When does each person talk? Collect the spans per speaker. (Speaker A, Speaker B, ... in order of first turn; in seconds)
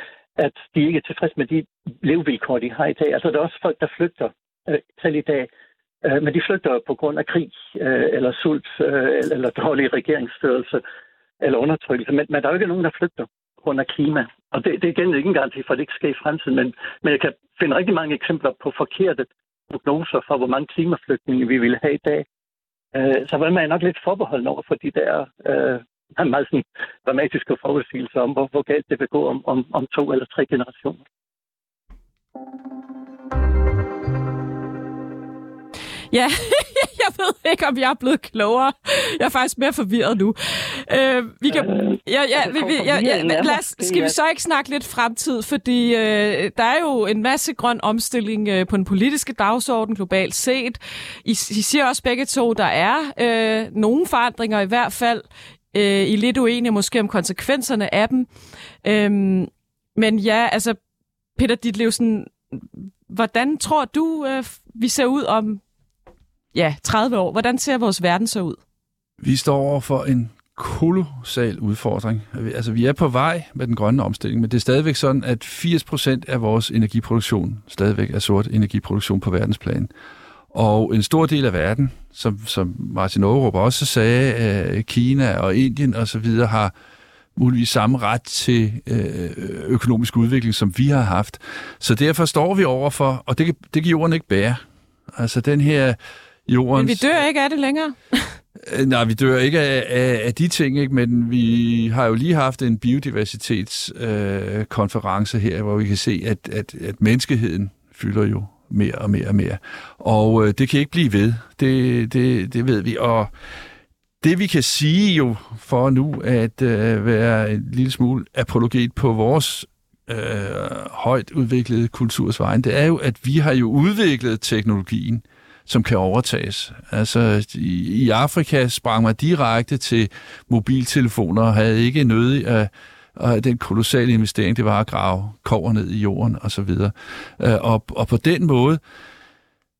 Speaker A: 0.4-5.5, 6.0-10.8, 11.4-22.2, 22.9-31.0, 41.5-44.1
Speaker B: 36.1-58.3, 58.8-60.8, 61.4-65.6, 66.5-68.6, 96.8-98.4
Speaker C: 69.2-79.9, 80.5-86.7, 87.3-94.6, 95.1-97.2, 98.6-113.3, 114.2-138.8